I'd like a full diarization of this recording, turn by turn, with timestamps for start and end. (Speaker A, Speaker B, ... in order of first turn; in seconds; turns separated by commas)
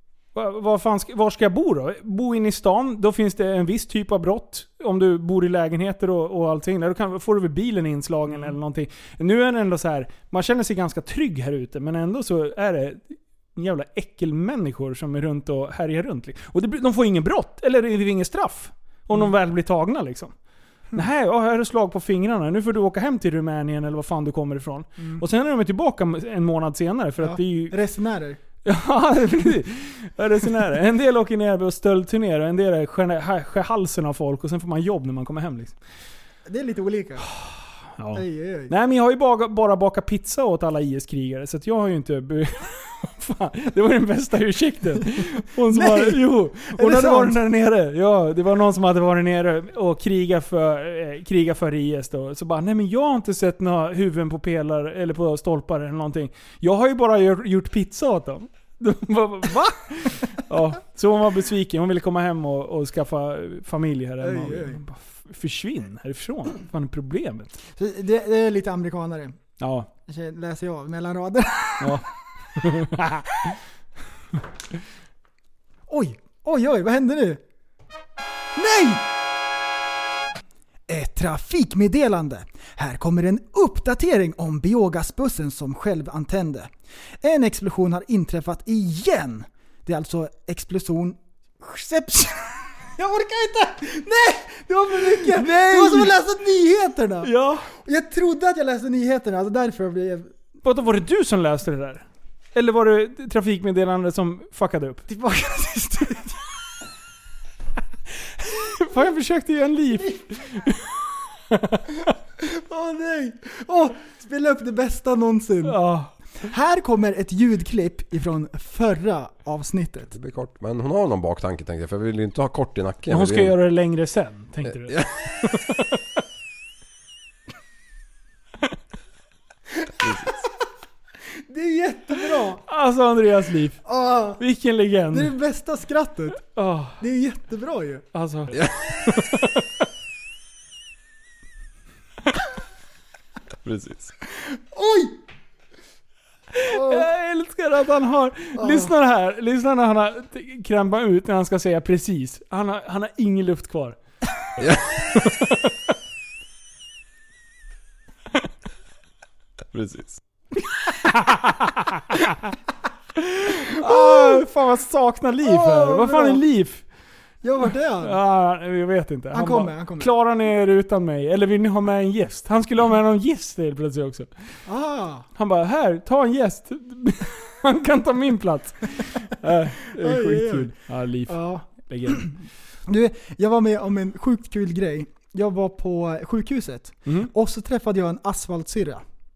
Speaker A: 0.3-20.3, Speaker A: 20.9-27.7, Speaker B: 27.2-28.4, Speaker A: 28.6-35.8, Speaker B: 36.5-37.3, Speaker A: 37.4-67.6, Speaker B: 38.1-38.7, Speaker B: 45.7-47.4, Speaker B: 64.2-64.8, Speaker B: 67.8-69.4, Speaker A: 69.6-69.9, Speaker B: 70.1-72.1, Speaker A: 72.6-73.6, Speaker B: 75.9-77.4, Speaker B: 78.5-79.0, Speaker B: 80.9-100.3, Speaker A: 95.0-96.1, Speaker A: 97.2-97.7, Speaker A: 100.6-105.0, Speaker B: 105.1-106.4, Speaker A: 108.4-112.1, Speaker B: 112.4-115.8, Speaker A: 115.6-116.1, Speaker B: 116.4-120.1, Speaker C: 120.1-123.5, Speaker A: 123.1-126.0, Speaker C: 124.7-125.2, Speaker C: 130.0-130.3, Speaker B: 131.5-132.6, Speaker A: 132.6-133.8, Speaker B: 133.8-134.4, Speaker A: 134.4-135.3, Speaker B: 135.1-136.4, Speaker A: 136.3-137.0, Speaker B: 137.0-138.1, Speaker A: 138.1-139.8, Speaker C: 143.6-144.1, Speaker B: 144.5-145.2, Speaker A: 146.5-154.0, Speaker B: 146.7-147.1, Speaker B: 148.6-148.9, Speaker A: 154.6-155.9, Speaker C: 159.7-160.2, Speaker A: 161.0-162.5, Speaker A: 163.2-166.8, Speaker B: 163.7-164.4, Speaker B: 165.4-166.4, Speaker B: 167.4-168.2, Speaker A: 168.0-174.3, Speaker B: 169.3-170.1, Speaker B: 174.7-175.3, Speaker A: 175.3-182.3, Speaker B: 179.8-180.7, Speaker B: 181.3-182.3, Speaker B: 182.9-189.0, Speaker A: 187.1-187.3